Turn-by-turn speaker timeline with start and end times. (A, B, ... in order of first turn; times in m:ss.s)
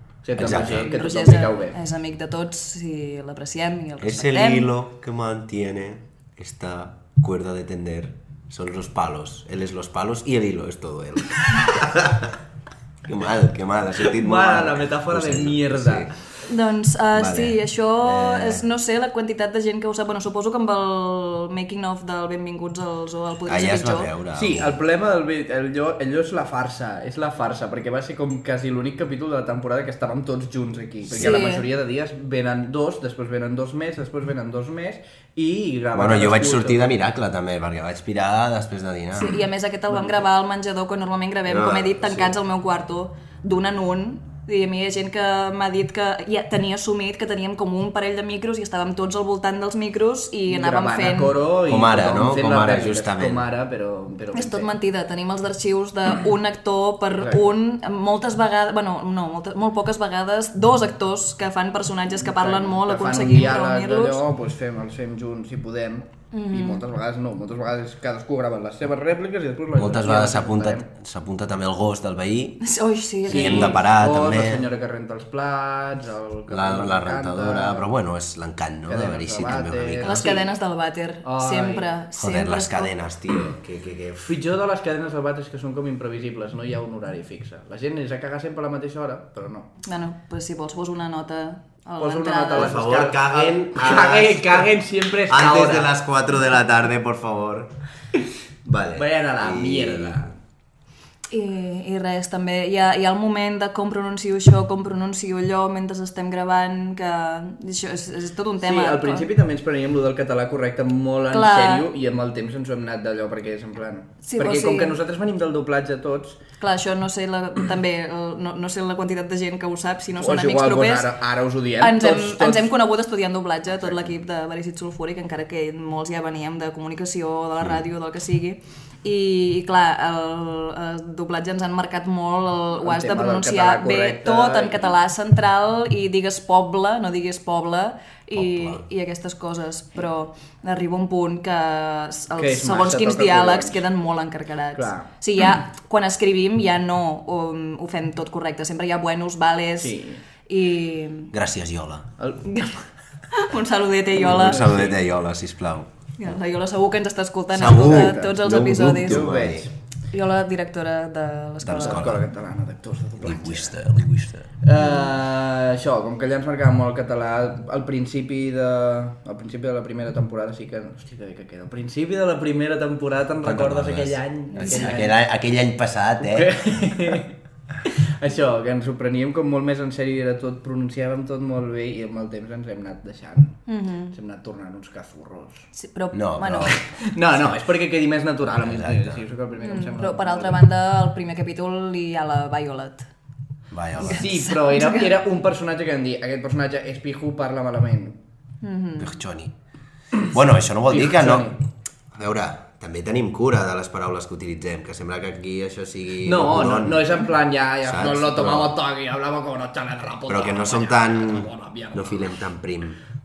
0:00.2-0:01.8 A
0:00.4-0:00.9 B
0:00.6-0:04.7 C
0:04.0-0:12.4 B
0:13.0-0:16.2 B
0:14.0-0:16.1 A
0:16.5-0:24.1 C
0:17.1-0:18.6 B
0:23.5-0:24.8 B
0:24.4-0:36.9 A
0:31.1-0:31.4 B
0:31.1-0:31.7 C
0:35.9-0:39.4 B
0:39.2-0:51.3 C
0:41.5-0:42.3 B
0:50.5-0:54.7 A
0:51.7-0:53.5 B
0:54.3-1:04.2 C
1:02.2-1:10.9 A
1:06.3-1:06.8 C
1:09.8-1:12.6 B
1:12.6-1:13.8 C
1:13.3-1:14.7 B
1:13.3-1:17.9 A
1:16.5-1:20.4 B
1:18.9-1:20.4 A
1:20.0-1:22.9 C
1:21.2-1:21.9 A
1:22.2-1:24.4 B
1:24.2-1:29.7 A
1:29.8-1:32.8 C
1:32.0-1:36.0 A
1:32.5-1:34.7 B
1:35.3-1:37.7 B
1:38.6-1:40.2 B
1:39.0-1:40.3 A
1:41.3-1:49.3 C
1:48.6-1:56.4 A
1:51.3-1:51.9 C
1:54.2-1:54.9 C
1:56.6-2:01.1 C
2:00.2-2:02.7 A
2:01.8-2:31.3 C
2:12.8-2:14.9 A
2:18.4-2:18.8 B
2:22.4-2:23.8 A
2:24.8-2:25.1 A
2:29.8-2:30.2 A
2:31.3-2:32.1 B
2:32.2-2:32.4 A
2:32.4-2:34.6 C
2:34.2-2:35.9 B
2:34.3-2:35.0 A
2:36.2-2:39.3 C
2:37.5-2:39.7 B
2:37.6-2:38.4 A
2:39.0-2:39.7 A
2:40.1-2:42.0 C
2:41.6-2:42.3 B
2:41.8-2:43.8 A
2:43.2-2:44.5 B
2:44.6-2:55.2 A
2:44.8-2:45.1 C
2:53.4-2:57.2 B
2:54.6-2:55.0 C
2:56.2-2:57.3 A
2:57.8-3:05.7 A
3:03.7-3:04.1 C
3:05.7-3:06.8 C
3:06.1-3:06.8 B
3:06.9-3:10.6 A
3:08.6-3:09.2 B
3:09.6-3:13.1 C
3:13.7-3:14.4 B
3:14.0-3:15.2 C
3:14.0-3:18.2 A
3:18.6-3:19.1 C
3:19.0-3:19.5 B
3:20.3-3:21.5 B
3:20.9-3:21.6 A
3:22.1-3:27.2 B
3:26.2-3:32.3 A
3:27.8-3:28.8 B
3:30.3-3:33.0 B